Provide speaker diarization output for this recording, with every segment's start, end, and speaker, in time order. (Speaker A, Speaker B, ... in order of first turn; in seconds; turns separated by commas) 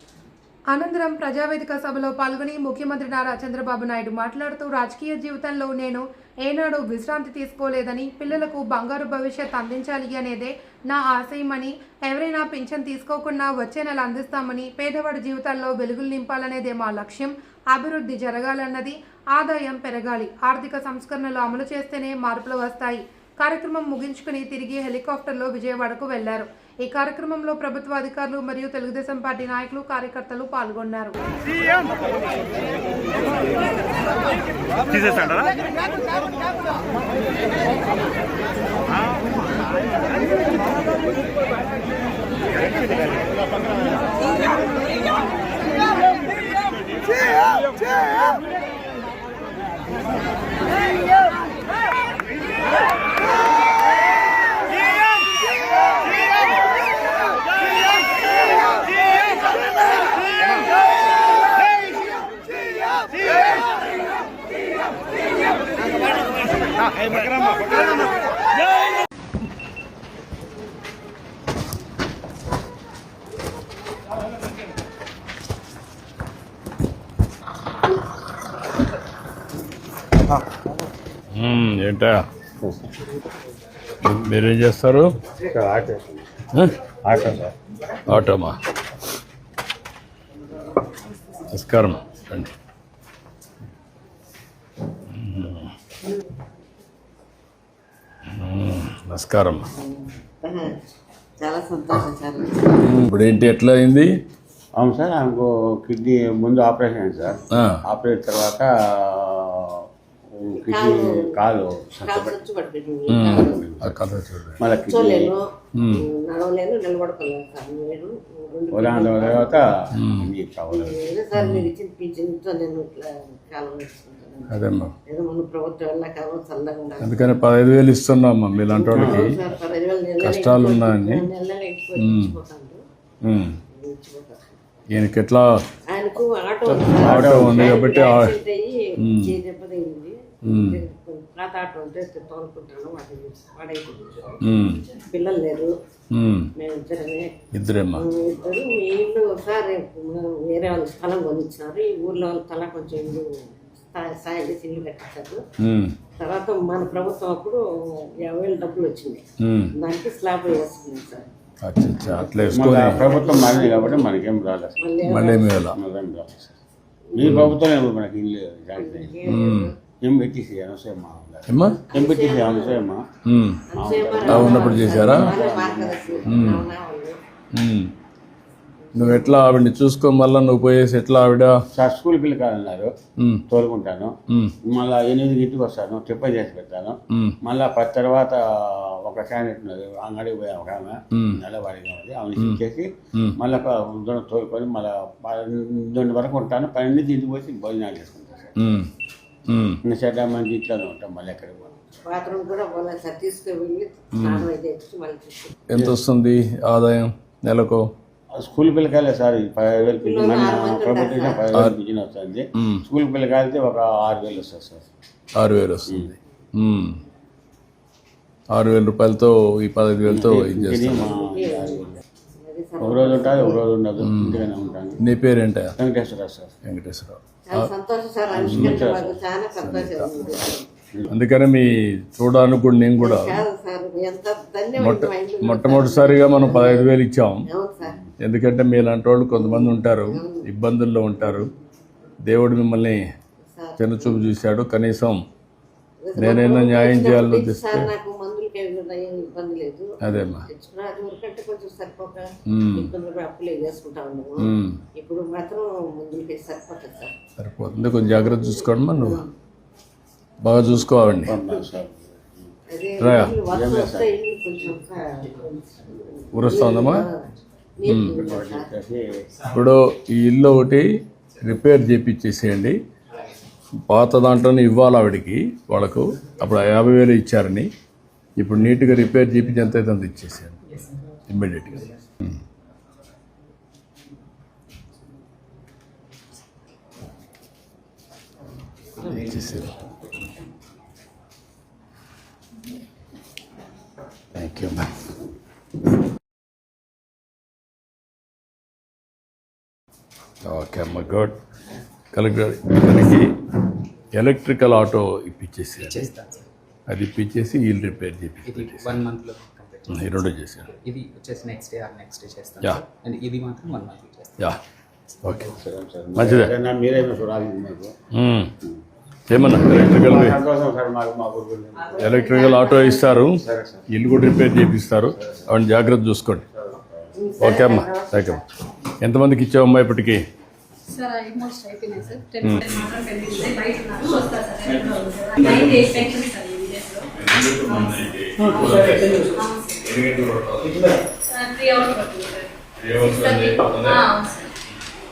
Speaker A: 0.7-31.2, Speaker B: 81.3-82.3, Speaker B: 84.0-85.1, Speaker C: 85.4-86.3, Speaker C: 87.0-87.5, Speaker B: 88.1-88.6, Speaker B: 91.5-92.5, Speaker B: 95.1-95.7, Speaker B: 98.3-99.7, Speaker D: 99.8-100.8, Speaker D: 101.4-102.9, Speaker B: 102.8-104.1, Speaker C: 104.8-109.8, Speaker B: 107.5-107.8, Speaker C: 110.4-112.4, Speaker D: 110.6-111.5, Speaker D: 112.0-113.8, Speaker B: 113.1-114.6, Speaker C: 113.4-113.9, Speaker C: 114.6-115.4, Speaker D: 114.8-119.7, Speaker B: 115.8-116.0, Speaker C: 118.7-121.1, Speaker B: 120.0-120.3, Speaker D: 120.7-127.3, Speaker B: 121.3-121.7, Speaker B: 124.5-124.9, Speaker B: 127.0-129.4, Speaker D: 128.7-132.8, Speaker C: 128.9-129.4, Speaker B: 130.2-131.3, Speaker B: 132.0-132.4, Speaker B: 133.2-133.6, Speaker D: 133.7-134.6, Speaker B: 134.9-135.5, Speaker D: 135.9-144.4, Speaker C: 136.7-137.8, Speaker B: 137.0-138.4, Speaker B: 139.0-139.4, Speaker B: 140.4-140.8, Speaker B: 144.4-144.9, Speaker D: 145.0-145.8, Speaker B: 146.1-146.5, Speaker D: 146.6-147.3, Speaker B: 147.5-148.0, Speaker D: 147.9-155.4, Speaker B: 155.6-155.9, Speaker D: 156.2-161.3, Speaker B: 159.4-159.7, Speaker B: 161.6-163.1, Speaker D: 162.2-164.1, Speaker C: 162.5-164.9, Speaker D: 164.8-165.6, Speaker B: 165.0-165.8, Speaker C: 165.7-166.6, Speaker D: 167.1-167.4, Speaker C: 167.2-169.2, Speaker B: 167.2-167.6, Speaker D: 168.8-169.8, Speaker B: 169.3-169.7, Speaker C: 169.9-173.0, Speaker B: 171.5-171.8, Speaker D: 171.6-172.9, Speaker B: 173.2-173.6, Speaker D: 173.7-177.2, Speaker C: 173.8-176.6, Speaker B: 174.3-175.3, Speaker B: 176.3-176.7, Speaker B: 177.5-177.9, Speaker B: 178.9-181.6, Speaker D: 179.0-179.3, Speaker C: 181.7-182.9, Speaker B: 183.2-183.4, Speaker C: 183.5-198.6, Speaker B: 191.1-191.4, Speaker B: 198.6-198.9, Speaker B: 199.5-199.8, Speaker C: 199.8-201.8, Speaker D: 202.1-205.6, Speaker B: 204.1-204.5, Speaker B: 205.7-207.8, Speaker C: 208.3-214.9, Speaker D: 209.7-211.6, Speaker B: 212.6-212.8, Speaker B: 215.4-217.0, Speaker B: 218.5-221.1, Speaker C: 220.1-222.0, Speaker D: 221.1-223.7, Speaker C: 222.8-225.0, Speaker B: 224.0-224.4, Speaker B: 225.0-225.8, Speaker C: 225.8-226.5, Speaker B: 226.7-227.7, Speaker D: 227.5-230.7, Speaker C: 228.3-229.2, Speaker B: 228.5-228.9, Speaker B: 229.6-230.1, Speaker B: 231.1-233.4, Speaker D: 233.0-236.9, Speaker B: 234.8-237.5, Speaker D: 237.4-238.0, Speaker B: 238.2-241.5, Speaker D: 239.3-240.5, Speaker B: 242.2-243.0, Speaker D: 243.5-244.3, Speaker B: 243.8-245.2, Speaker D: 246.0-257.1, Speaker B: 246.2-247.9, Speaker B: 250.0-250.5, Speaker B: 252.5-252.9, Speaker B: 254.4-254.8, Speaker B: 257.4-259.2, Speaker D: 258.0-259.3, Speaker B: 260.4-261.4, Speaker C: 261.3-262.6, Speaker D: 262.7-268.7, Speaker B: 263.0-263.4, Speaker C: 263.4-264.2, Speaker B: 266.3-267.1, Speaker B: 267.9-268.2, Speaker C: 268.2-269.1, Speaker B: 269.5-270.9, Speaker B: 271.4-272.8, Speaker B: 273.9-277.7, Speaker B: 278.4-280.6, Speaker E: 280.7-281.0, Speaker B: 281.3-282.4, Speaker B: 289.0-289.8, Speaker B: 294.4-295.0, Speaker B: 300.4-301.4, Speaker B: 302.1-303.4, Speaker B: 304.1-306.1, Speaker E: 305.8-306.5, Speaker B: 306.9-309.0, Speaker E: 308.4-314.4, Speaker B: 309.9-310.7, Speaker B: 315.2-315.6, Speaker C: 315.5-317.9, Speaker B: 316.2-316.5, Speaker B: 318.1-318.5, Speaker B: 319.3-320.4, Speaker C: 319.5-322.5, Speaker B: 321.9-323.4, Speaker D: 322.6-322.9, Speaker C: 323.3-323.9, Speaker B: 323.9-326.4, Speaker C: 326.6-327.3, Speaker D: 327.2-328.4, Speaker B: 327.4-328.4, Speaker B: 329.0-330.2, Speaker F: 330.9-339.9, Speaker B: 332.4-332.8, Speaker B: 337.1-341.0, Speaker F: 341.3-344.5, Speaker B: 342.8-344.1